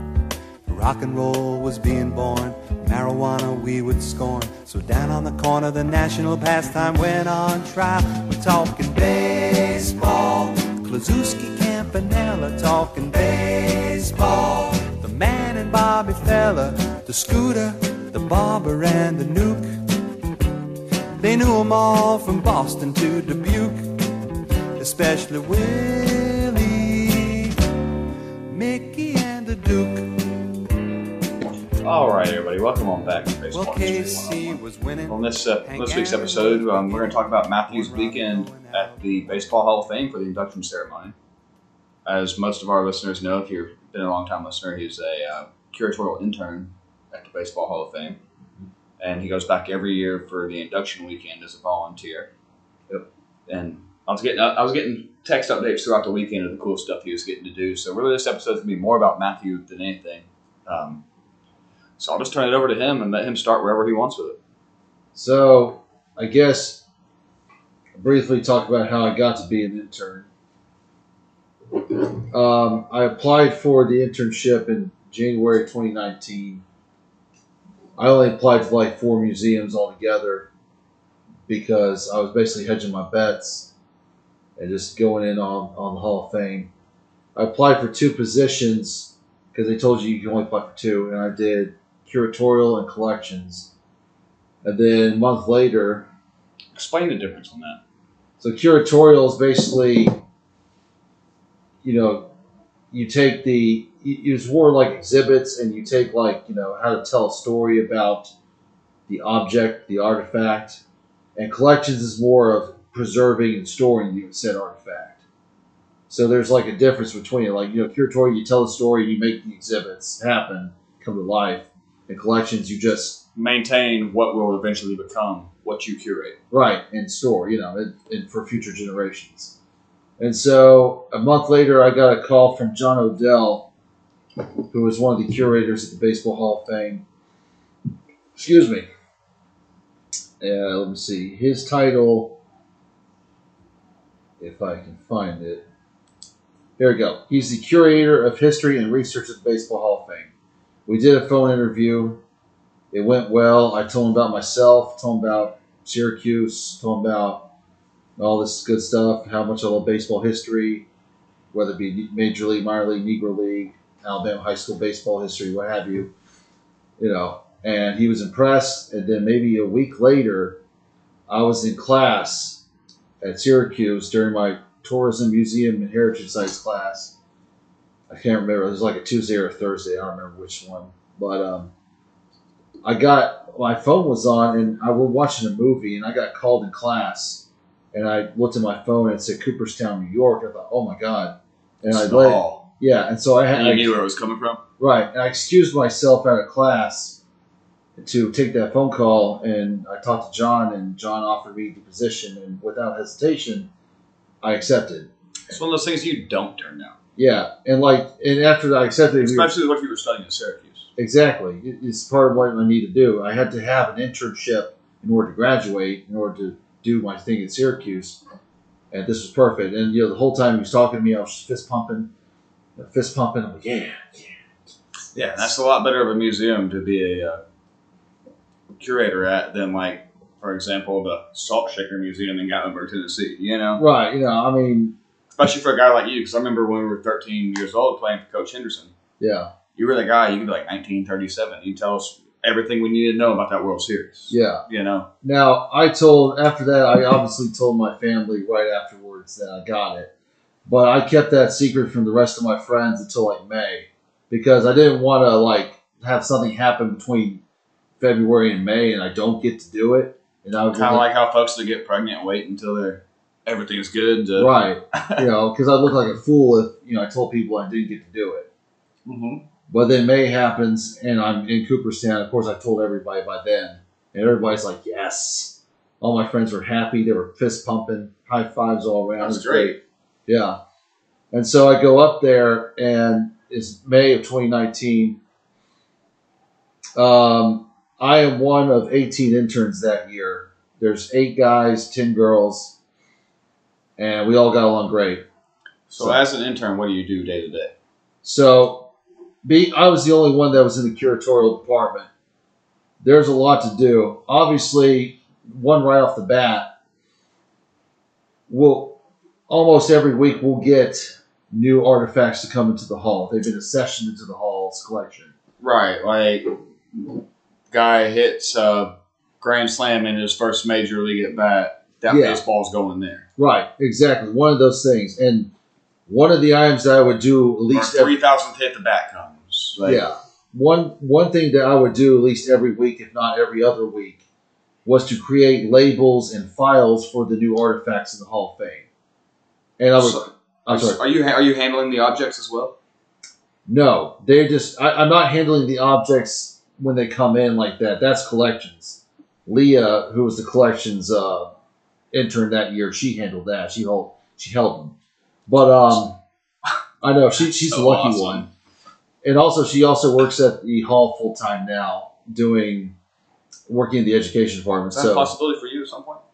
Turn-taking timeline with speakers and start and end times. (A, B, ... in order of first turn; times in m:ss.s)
0:00.7-0:19.7 A
0:21.2-0:24.1 A
0:24.8-0:27.6 A
0:28.5-0:30.3 A
0:31.8-0:41.2 B
0:33.5-0:39.8 A
0:42.1-0:48.2 B
0:49.0-0:52.3 B
0:53.5-1:01.0 B
1:02.0-1:04.4 B
1:05.2-1:06.8 C
1:08.0-1:10.3 C
1:11.9-1:16.6 C
1:18.0-1:20.5 C
1:21.5-1:23.7 C
1:24.6-1:26.7 C
1:27.4-1:33.7 C
1:34.6-1:36.1 C
1:36.8-1:37.8 B
1:38.4-1:40.2 C
1:41.8-1:42.3 C
1:42.9-1:48.3 C
1:49.1-1:50.8 C
1:51.4-1:55.2 C
1:56.1-2:03.2 C
2:03.4-2:06.4 B
2:06.5-2:09.6 C
2:10.2-2:13.7 C
2:14.7-2:17.0 C
2:18.4-2:18.9 C
2:20.4-2:22.4 C
2:24.4-2:25.6 C
2:26.8-2:30.3 C
2:30.9-2:32.2 C
2:32.9-2:37.5 C
2:38.2-2:40.9 C
2:41.5-2:46.1 C
2:47.0-2:50.6 C
2:51.3-2:52.6 C
2:53.2-2:57.1 C
2:58.1-3:01.7 C
3:02.8-3:13.9 C
3:11.9-3:12.7 B
3:13.5-3:14.6 B
3:14.8-3:17.2 C
3:18.0-3:23.7 C
3:24.4-3:25.1 C
3:25.5-3:27.0 B
3:27.2-3:29.5 C
3:29.2-3:30.9 B
3:31.0-3:38.2 C
3:38.9-3:42.1 C
3:42.8-3:44.4 C
3:45.1-3:47.4 B
3:48.8-3:53.8 B
3:53.8-3:55.0 C
3:55.4-3:58.9 B
3:59.2-3:59.5 C
3:59.8-4:05.1 B
4:04.3-4:04.6 C
4:05.2-4:10.1 C
4:10.7-4:17.4 C
4:18.0-4:21.0 C
4:20.7-4:25.2 B
4:24.4-4:28.5 C
4:29.1-4:29.4 B
4:29.7-4:40.6 C
4:39.2-4:39.8 B
4:41.3-4:45.2 C
4:47.0-4:52.8 C
4:54.0-4:55.2 C
4:55.9-4:57.7 B
4:56.0-4:56.2 C
4:58.2-4:58.9 C
4:59.4-5:02.1 C
5:03.0-5:06.7 C
5:08.5-5:15.3 C
5:15.6-5:17.0 B
5:17.7-5:23.3 B
5:22.1-5:22.4 C
5:23.4-5:25.5 C
5:26.1-5:28.1 C
5:27.7-5:30.0 B
5:29.8-5:34.2 C
5:34.8-5:38.9 C
5:39.8-5:41.0 C
5:40.0-5:42.8 B
5:43.7-5:51.5 C
5:52.1-5:55.0 C
5:55.5-5:56.2 C
5:57.0-5:58.5 C
5:57.6-5:58.5 B
5:59.2-6:03.0 C
6:03.7-6:05.3 C
6:04.9-6:06.2 B